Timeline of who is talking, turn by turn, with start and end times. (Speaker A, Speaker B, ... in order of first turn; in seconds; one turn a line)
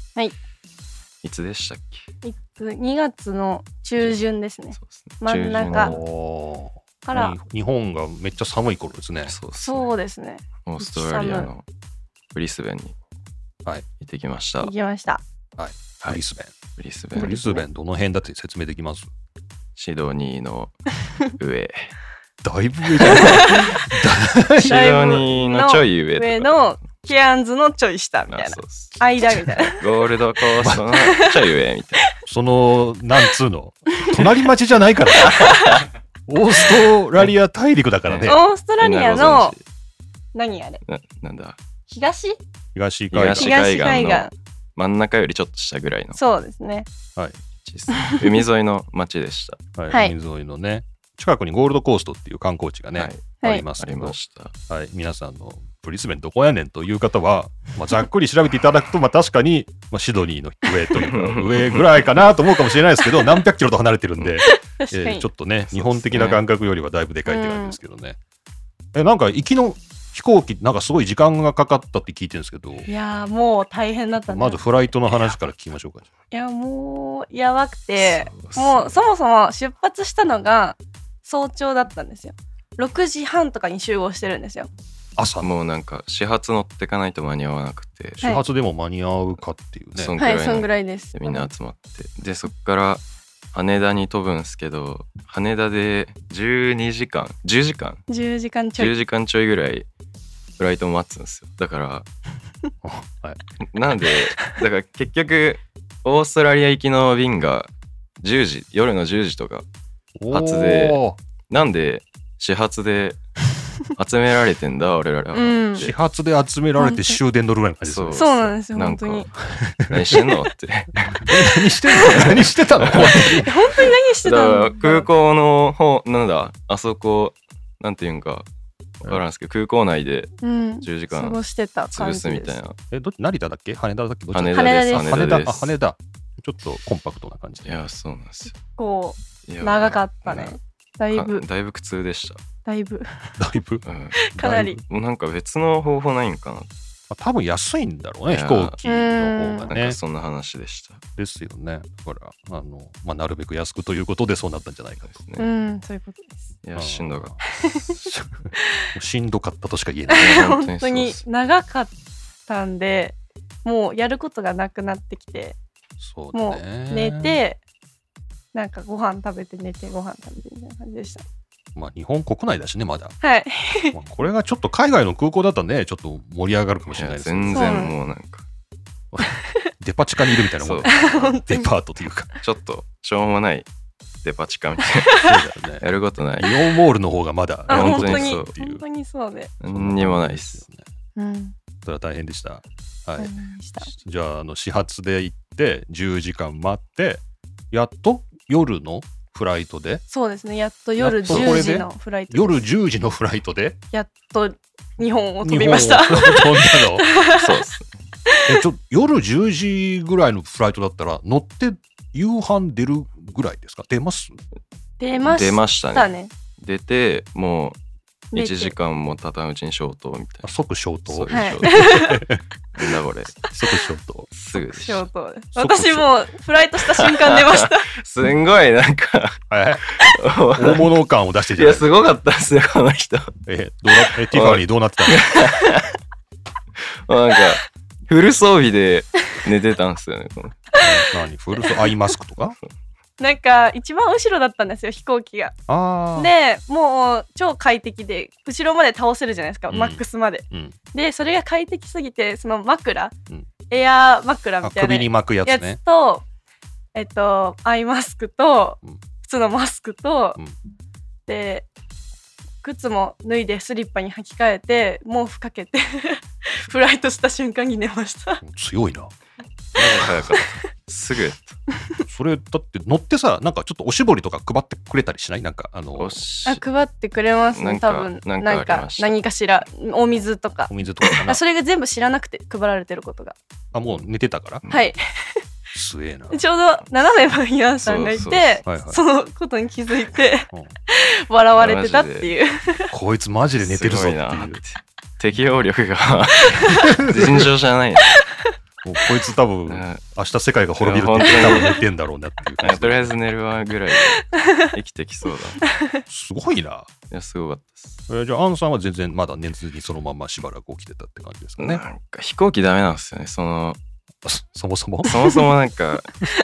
Speaker A: 1.2-2.1
Speaker B: 2.2-6.0
Speaker A: 4.8-6.0
Speaker C: 5.6-9.3
Speaker B: 7.0-7.4
Speaker A: 9.2-9.9
Speaker B: 9.6-11.5
Speaker A: 10.7-11.7
Speaker A: 12.3-12.9
Speaker A: 14.0-14.7
Speaker B: 14.6-15.2
Speaker C: 15.6-16.5
Speaker A: 16.8-17.4
Speaker C: 17.1-19.1
Speaker B: 17.2-17.6
Speaker A: 19.8-20.7
Speaker A: 21.3-21.9
Speaker C: 22.4-25.0
Speaker A: 23.0-23.4
Speaker B: 23.1-23.9
Speaker A: 24.6-26.6
Speaker B: 24.6-29.8
Speaker A: 28.3-29.0
Speaker A: 29.8-32.0
Speaker B: 31.0-31.3
Speaker C: 32.2-35.7
Speaker A: 35.2-35.8
Speaker B: 35.3-35.9
Speaker C: 36.3-38.4
Speaker A: 38.1-39.6
Speaker B: 38.2-39.5
Speaker B: 40.3-40.8
Speaker A: 40.9-41.6
Speaker B: 41.9-42.4
Speaker C: 42.8-43.6
Speaker A: 43.1-46.2
Speaker B: 43.4-44.3
Speaker B: 46.1-46.9
Speaker A: 47.6-49.6
Speaker B: 48.0-48.4
Speaker C: 49.8-54.2
Speaker B: 49.9-50.2
Speaker A: 53.0-54.5
Speaker C: 54.7-68.2
Speaker A: 61.0-62.1
Speaker B: 64.4-65.3
Speaker A: 65.7-66.4
Speaker B: 67.3-67.8
Speaker C: 68.9-72.9
Speaker B: 72.9-74.6
Speaker C: 74.3-76.1
Speaker B: 76.3-84.7
Speaker A: 78.0-79.0
Speaker C: 85.2-85.5
Speaker A: 85.4-88.4
Speaker C: 88.2-90.2
Speaker A: 90.0-93.0
Speaker B: 90.2-91.4
Speaker A: 93.5-98.0
Speaker B: 98.1-99.0
Speaker A: 98.8-99.9
Speaker A: 100.6-102.1
Speaker C: 102.8-103.4
Speaker A: 103.6-107.7
Speaker A: 108.2-109.7
Speaker C: 110.2-111.2
Speaker A: 110.3-113.2
Speaker A: 113.9-116.0
Speaker B: 115.3-115.9
Speaker C: 115.8-118.5
Speaker B: 116.8-117.2
Speaker A: 117.8-119.3
Speaker B: 118.1-119.3
Speaker C: 119.5-120.2
Speaker A: 119.9-128.5
Speaker C: 121.1-123.5
Speaker B: 122.0-122.3
Speaker B: 123.3-125.1
Speaker A: 129.0-131.4
Speaker B: 130.4-132.6
Speaker A: 131.9-132.8
Speaker C: 132.9-137.8
Speaker A: 134.3-135.8
Speaker B: 134.5-135.3
Speaker A: 137.7-138.6
Speaker B: 138.5-141.5
Speaker A: 139.5-140.6
Speaker A: 141.1-142.4
Speaker B: 142.7-143.4
Speaker C: 143.4-143.8
Speaker A: 143.9-144.2
Speaker B: 144.1-144.8
Speaker C: 144.4-144.8
Speaker A: 144.9-146.7
Speaker C: 147.1-150.0
Speaker A: 148.3-148.8
Speaker B: 148.8-149.7
Speaker A: 149.7-151.0
Speaker C: 151.2-155.2
Speaker A: 155.0-155.5
Speaker B: 155.4-156.5
Speaker A: 156.6-157.9
Speaker C: 156.8-157.4
Speaker B: 157.4-157.8
Speaker C: 157.9-160.5
Speaker B: 158.6-158.9
Speaker B: 160.1-161.9
Speaker A: 160.2-161.2
Speaker B: 162.5-165.6
Speaker C: 166.0-167.4
Speaker B: 166.3-167.6
Speaker B: 168.5-171.2
Speaker C: 171.8-173.2
Speaker B: 173.2-174.0
Speaker C: 173.9-177.9
Speaker A: 176.9-178.5
Speaker B: 177.5-177.9
Speaker C: 179.1-182.3
Speaker A: 180.6-180.9
Speaker B: 180.9-181.7
Speaker A: 182.4-183.7
Speaker A: 184.2-185.2
Speaker C: 185.1-185.8
Speaker A: 185.8-186.5
Speaker C: 186.4-188.8
Speaker B: 187.7-189.5
Speaker A: 187.7-188.5
Speaker A: 189.6-190.6
Speaker C: 189.6-190.8
Speaker B: 191.2-191.5
Speaker C: 191.8-200.0
Speaker B: 193.2-193.9
Speaker B: 200.1-202.7
Speaker C: 201.0-203.8
Speaker A: 201.3-201.6
Speaker B: 203.9-207.5
Speaker C: 205.4-207.1
Speaker A: 207.3-207.9
Speaker C: 208.5-214.4
Speaker B: 215.0-216.3
Speaker A: 215.2-217.8
Speaker B: 218.3-218.7
Speaker A: 218.3-220.5
Speaker C: 220.4-222.4
Speaker A: 221.1-222.0
Speaker B: 221.3-222.2
Speaker A: 222.8-223.4
Speaker C: 223.5-224.3
Speaker A: 224.3-225.1
Speaker B: 224.5-227.9
Speaker C: 225.6-226.2
Speaker A: 226.9-229.4
Speaker C: 229.5-229.8
Speaker A: 229.9-230.9
Speaker C: 230.5-231.9
Speaker A: 231.5-233.3
Speaker C: 233.5-235.3
Speaker A: 233.9-235.9
Speaker A: 237.1-240.6
Speaker C: 240.8-242.6
Speaker B: 241.6-241.9
Speaker B: 243.2-245.5
Speaker C: 245.7-246.3
Speaker B: 246.2-253.1
Speaker C: 249.7-250.8
Speaker B: 253.7-256.2
Speaker C: 254.6-255.8
Speaker B: 256.9-260.4
Speaker B: 261.3-261.7
Speaker B: 262.6-268.4
Speaker C: 268.4-269.1
Speaker A: 269.8-271.6
Speaker C: 272.1-276.2
Speaker A: 276.0-276.6
Speaker B: 276.5-280.7
Speaker A: 277.5-279.1
Speaker C: 280.7-281.4
Speaker B: 281.2-283.4
Speaker C: 283.7-284.6
Speaker B: 284.7-285.4
Speaker C: 285.7-286.5
Speaker B: 286.3-292.9
Speaker A: 287.8-288.6
Speaker C: 288.6-289.0
Speaker A: 291.6-292.4
Speaker C: 292.9-294.6
Speaker A: 293.6-298.2
Speaker B: 296.6-296.9
Speaker C: 296.9-297.5
Speaker C: 298.8-303.2
Speaker A: 299.7-300.0
Speaker A: 300.8-301.8
Speaker B: 301.3-301.8
Speaker A: 302.6-305.6
Speaker B: 304.3-304.7
Speaker B: 305.6-306.0
Speaker C: 306.1-306.9
Speaker A: 307.1-308.0
Speaker C: 308.1-311.8
Speaker A: 311.6-313.8
Speaker C: 314.2-315.4
Speaker A: 315.1-316.2